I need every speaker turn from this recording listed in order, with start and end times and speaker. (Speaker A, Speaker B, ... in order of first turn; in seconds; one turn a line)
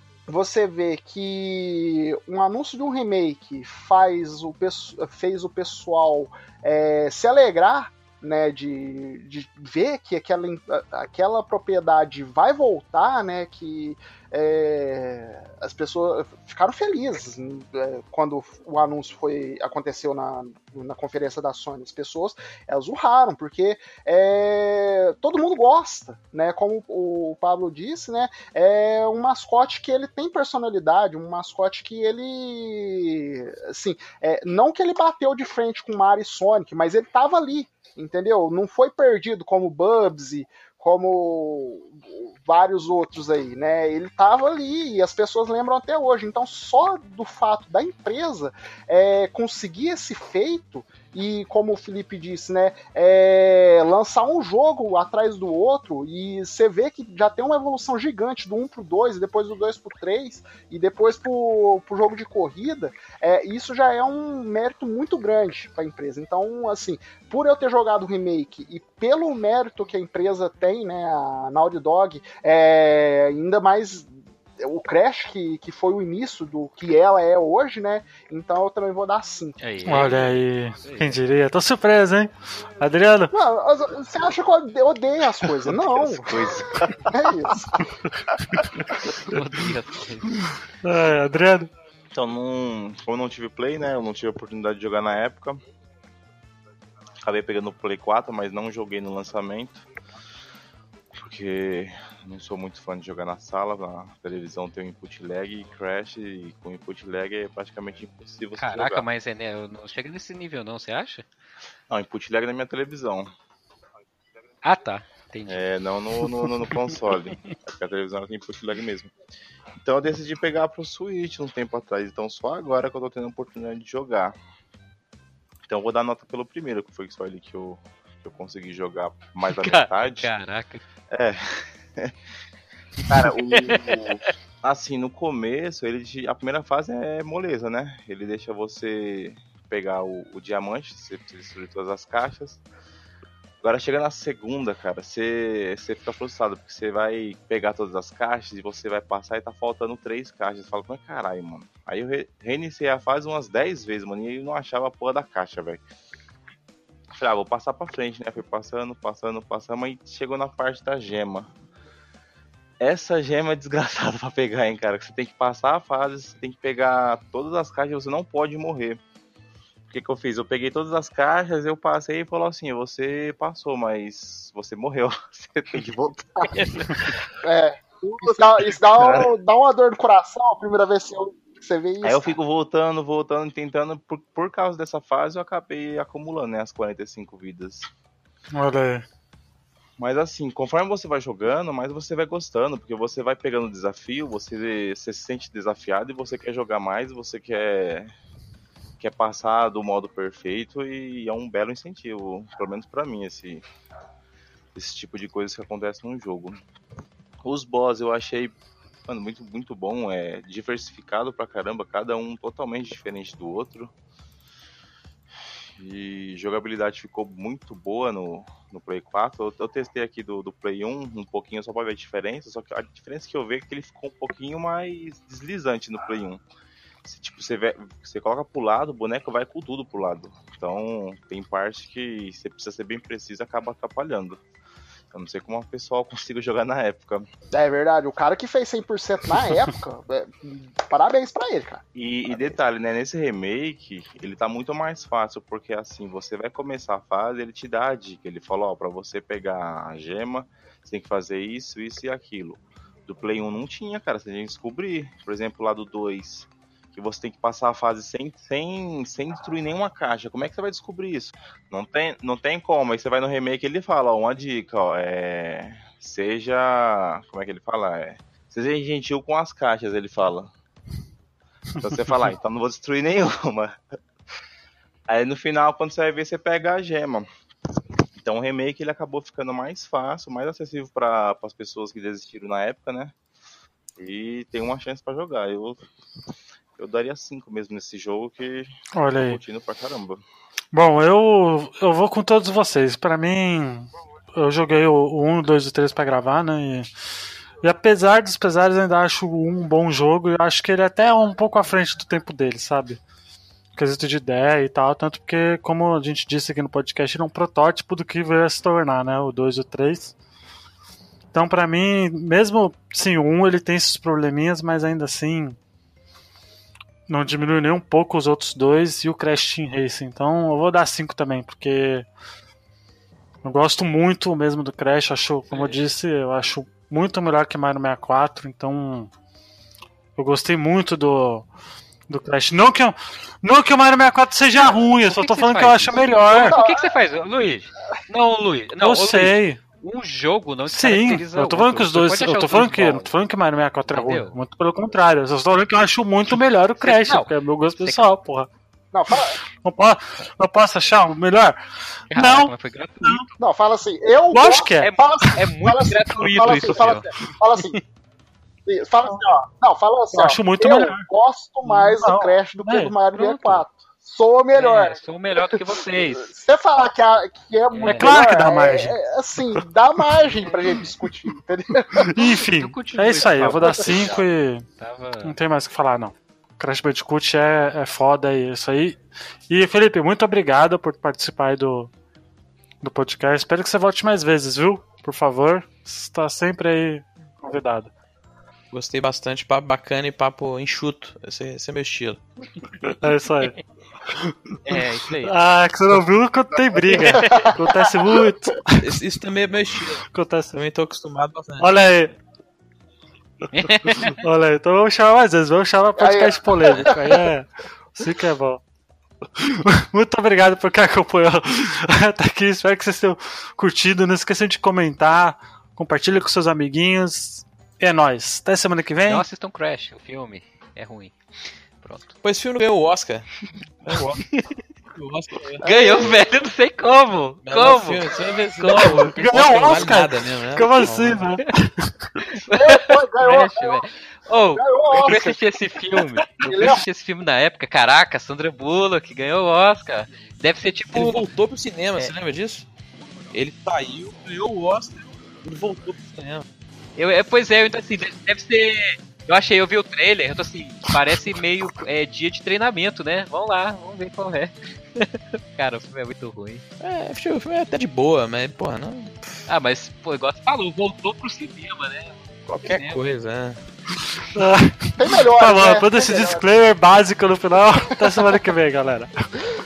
Speaker A: 0.3-79.6
Speaker B: 79.6-81.2
Speaker C: 79.8-83.3
Speaker A: 83.3-86.6
Speaker D: 85.7-87.1
Speaker A: 87.1-88.0
Speaker B: 89.0-90.5
Speaker C: 90.8-91.7
Speaker D: 92.1-95.6
Speaker D: 97.2-99.8
Speaker D: 101.2-109.0
Speaker B: 108.6-111.2
Speaker D: 111.9-113.3
Speaker B: 114.6-115.7
Speaker D: 115.5-119.1
Speaker D: 119.8-124.4
Speaker D: 125.7-130.3
Speaker B: 129.5-130.8
Speaker D: 131.1-132.1
Speaker D: 133.1-142.6
Speaker B: 133.5-134.0
Speaker D: 143.6-155.8
Speaker D: 157.1-161.5
Speaker D: 162.8-169.0
Speaker D: 169.9-177.1
Speaker B: 176.5-177.0
Speaker A: 177.4-182.4
Speaker D: 178.4-179.3
Speaker D: 182.0-187.9
Speaker C: 188.5-189.0
Speaker D: 190.0-198.1
Speaker D: 199.0-203.7
Speaker D: 204.7-206.6
Speaker D: 207.4-213.9
Speaker D: 215.8-226.4
Speaker D: 227.0-234.4
Speaker D: 235.1-237.3
Speaker A: 237.5-242.6
Speaker D: 241.9-270.5
Speaker D: 271.7-273.8
Speaker D: 275.1-277.3
Speaker D: 278.1-283.1
Speaker D: 284.0-285.9
Speaker D: 286.8-290.2
Speaker C: 288.9-289.4
Speaker C: 290.7-296.9
Speaker C: 297.6-303.0
Speaker C: 303.7-310.1
Speaker C: 311.3-315.6
Speaker C: 317.1-322.1
Speaker C: 323.4-329.1
Speaker B: 325.5-325.8
Speaker C: 330.2-331.5
Speaker C: 332.1-336.6
Speaker B: 335.0-343.1
Speaker A: 336.3-337.0
Speaker C: 338.8-339.6
Speaker C: 340.7-348.5
Speaker B: 343.9-344.4
Speaker B: 346.8-348.1
Speaker A: 348.9-349.4
Speaker C: 349.5-351.6
Speaker B: 352.1-353.4
Speaker C: 352.1-353.3
Speaker A: 353.4-357.8
Speaker C: 354.3-354.9
Speaker B: 354.8-357.8
Speaker A: 358.6-372.1
Speaker C: 360.1-361.1
Speaker C: 361.6-362.9
Speaker B: 363.1-363.6
Speaker B: 364.5-366.3
Speaker B: 367.7-368.1
Speaker C: 367.9-369.0
Speaker B: 370.4-370.9
Speaker C: 372.0-374.6
Speaker B: 372.2-374.2
Speaker B: 374.8-375.4
Speaker C: 375.2-381.9
Speaker C: 382.8-387.9
Speaker E: 388.7-392.2
Speaker C: 393.0-393.6
Speaker B: 394.6-395.3
Speaker C: 395.2-398.9
Speaker B: 396.9-397.5
Speaker A: 397.0-398.2
Speaker E: 398.8-401.7
Speaker C: 400.1-400.6
Speaker C: 401.6-402.1
Speaker B: 403.5-404.2
Speaker C: 403.8-408.6
Speaker A: 406.0-407.2
Speaker C: 409.4-419.2
Speaker B: 419.0-421.2
Speaker B: 421.8-422.1
Speaker E: 422.2-424.3
Speaker B: 424.0-424.6
Speaker E: 424.9-425.6
Speaker A: 425.6-426.2
Speaker B: 425.6-429.2
Speaker E: 427.4-431.2
Speaker C: 429.1-431.9
Speaker B: 432.2-441.2
Speaker A: 432.6-433.9
Speaker A: 434.5-435.4
Speaker A: 436.4-436.8
Speaker E: 440.9-442.7
Speaker E: 443.3-446.4
Speaker B: 446.9-456.6
Speaker E: 456.8-459.4
Speaker B: 459.5-463.0
Speaker E: 462.5-463.6
Speaker C: 464.2-469.1
Speaker A: 465.0-466.4